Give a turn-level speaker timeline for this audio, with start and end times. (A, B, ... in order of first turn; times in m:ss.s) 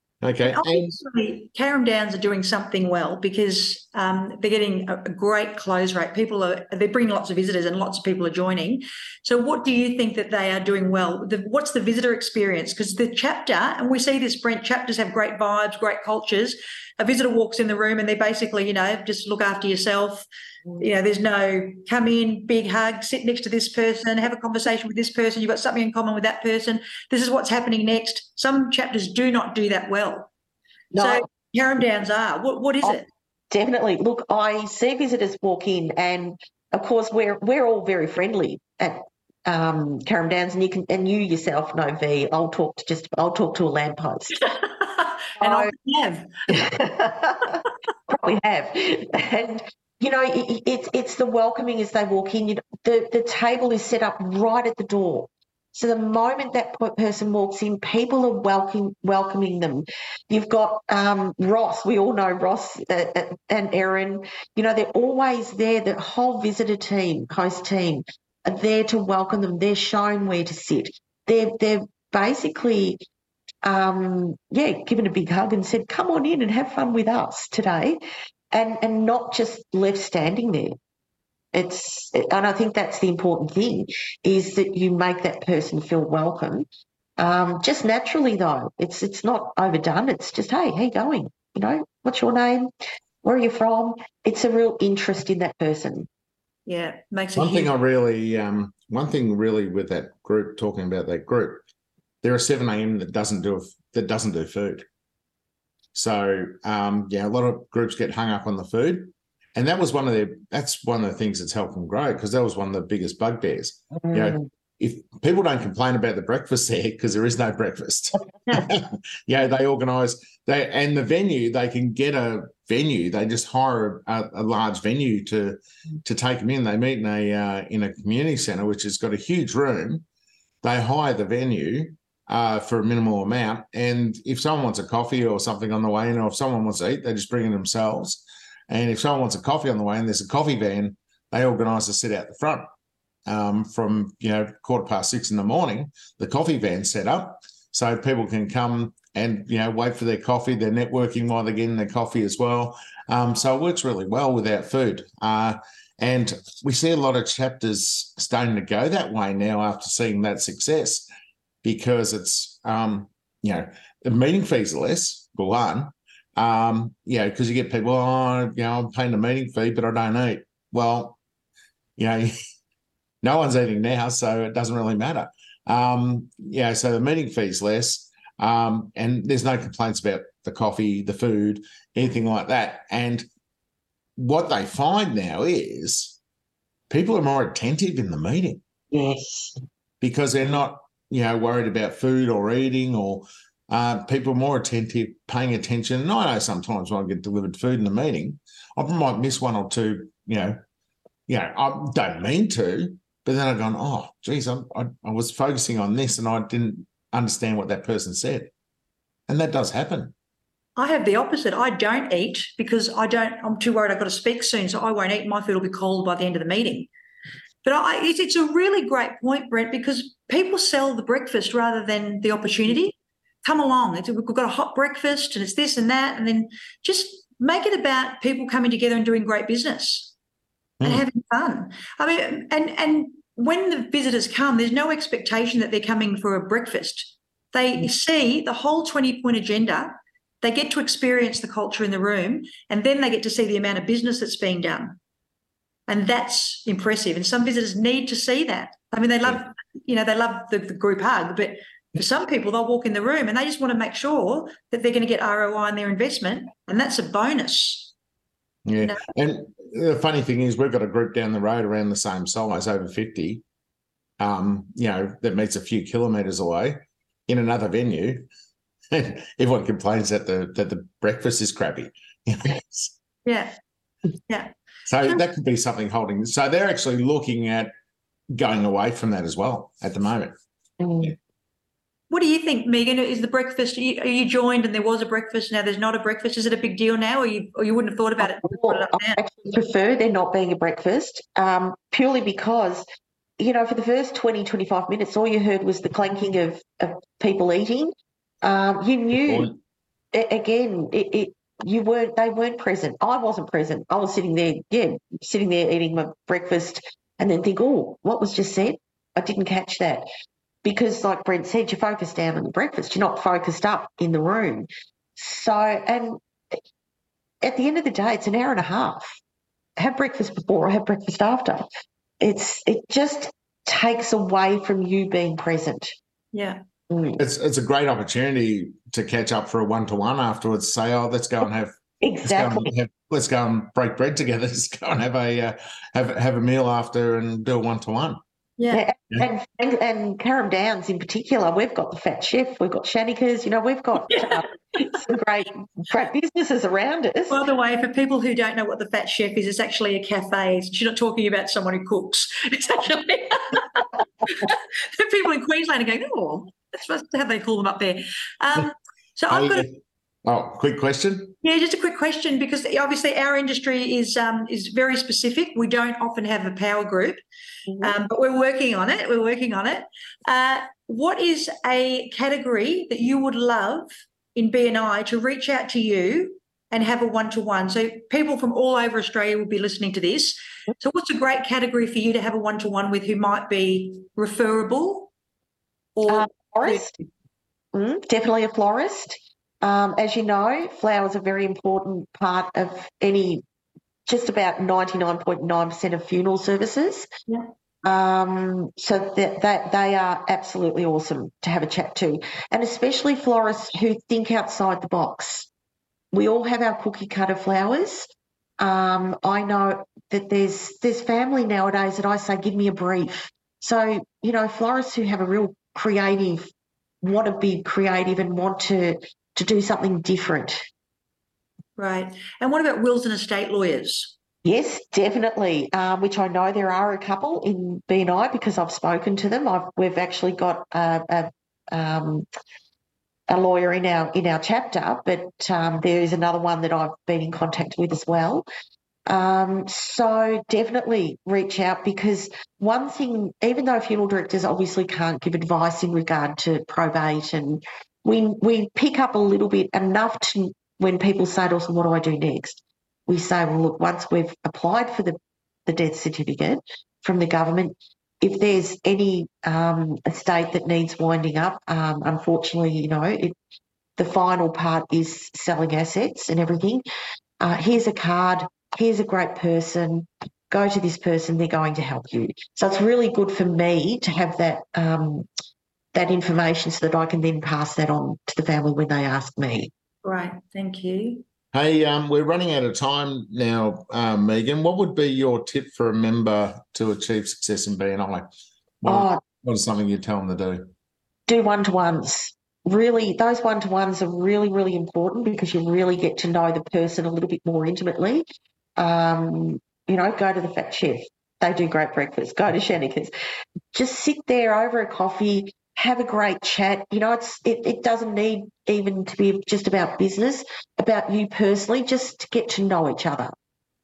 0:00.2-0:00.9 A
0:00.4-0:20.3 B
0:20.8-0:30.3 B
0:30.9-0:31.2 C
0:31.0-0:33.1 B
0:32.8-0:44.4 C
0:44.4-0:46.5 B
0:45.4-0:45.7 C
0:46.5-1:13.0 C
1:13.6-1:18.0 C
1:18.5-1:20.8 C
1:21.5-1:26.6 C
1:27.2-1:32.7 C
1:33.2-1:36.1 C
1:36.7-1:37.7 B
1:37.4-1:41.6 A
1:42.2-1:44.8 A
1:45.9-2:10.0 A
1:54.1-1:54.4 C
2:10.6-2:22.7 A
2:23.3-2:41.1 A
2:41.6-2:51.2 A
2:52.0-2:52.3 A
2:53.2-3:03.2 A
3:04.2-3:06.2 A
3:06.9-3:08.6 A
3:08.9-3:09.5 C
3:10.0-3:20.6 A
3:21.3-3:28.5 A
3:29.3-3:30.1 A
3:30.8-3:36.9 B
3:37.6-3:50.1 B
3:50.8-4:05.0 B
4:05.9-4:17.9 B
4:18.6-4:23.4 A
4:24.2-4:28.2 A
4:28.9-4:32.9 A
4:33.2-4:33.5 B
4:34.3-4:35.2 B
4:34.9-4:37.7 A
4:38.3-4:40.3 A
4:40.8-4:41.1 C
4:42.1-4:49.2 B
4:48.2-4:52.8 C
4:53.4-4:59.5 C
4:59.2-4:59.5 A
5:00.1-5:10.1 C
5:10.6-5:16.2 C
5:17.4-5:19.2 C
5:19.8-5:21.7 C
5:22.2-5:26.0 C
5:26.3-5:26.6 B
5:26.9-5:27.2 C
5:27.2-5:38.2 A
5:32.0-5:32.7 C
5:38.6-5:38.9 B
5:38.7-5:47.4 C
5:44.1-5:44.4 B
5:47.3-5:59.7 B
5:59.3-6:01.3 A
6:01.4-6:07.2 B
6:07.7-6:07.9 C
6:07.8-6:25.1 B
6:26.0-6:27.0 B
6:26.1-6:26.9 C
6:27.7-6:33.4 C
6:34.0-6:37.1 C
6:37.8-6:45.5 C
6:46.1-6:56.5 C
6:57.0-7:00.6 C
7:01.8-7:04.1 B
7:04.4-7:12.2 C
7:13.3-7:18.5 C
7:19.1-7:43.4 C
7:44.0-7:46.8 C
7:47.4-7:55.3 C
7:55.9-7:59.7 C
8:00.0-8:01.2 B
8:01.5-8:08.2 A
8:08.8-8:10.7 A
8:08.8-8:09.2 C
8:11.3-8:18.2 C
8:18.8-8:23.1 C
8:23.7-8:33.3 C